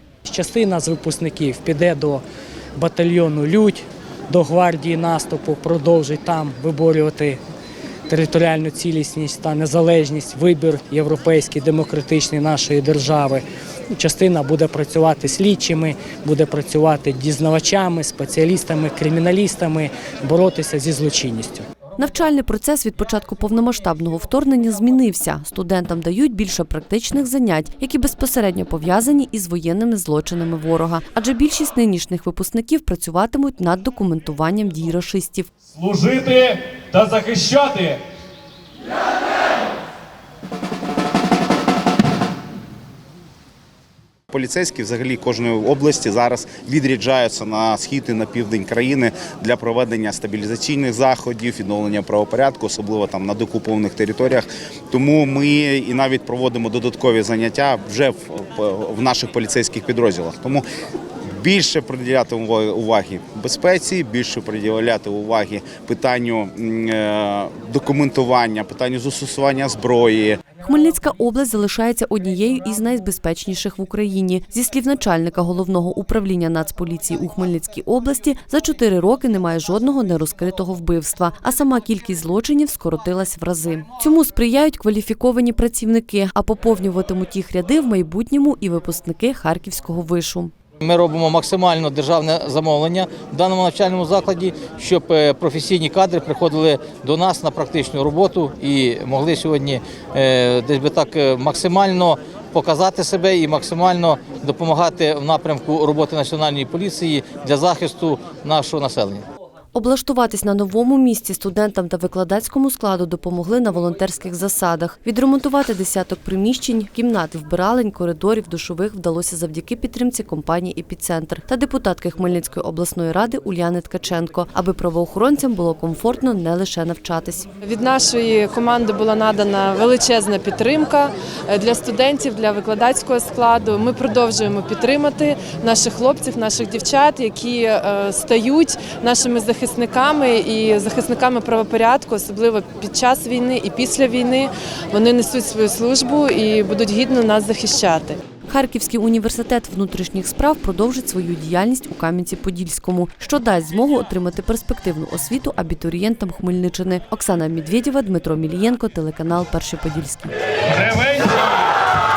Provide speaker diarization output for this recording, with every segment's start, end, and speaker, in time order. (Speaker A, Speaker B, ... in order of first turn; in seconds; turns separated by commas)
Speaker A: 0.2-2.2, Speaker A: 2.8-7.4, Speaker A: 8.1-21.6, Speaker B: 22.0-35.5, Speaker C: 35.7-38.0, Speaker D: 44.3-60.6, Speaker D: 61.4-70.4, Speaker B: 70.6-90.5, Speaker E: 90.8-109.2, Speaker B: 109.7-127.5, Speaker F: 127.6-148.2, Speaker B: 148.5-160.3, Speaker C: 160.7-161.6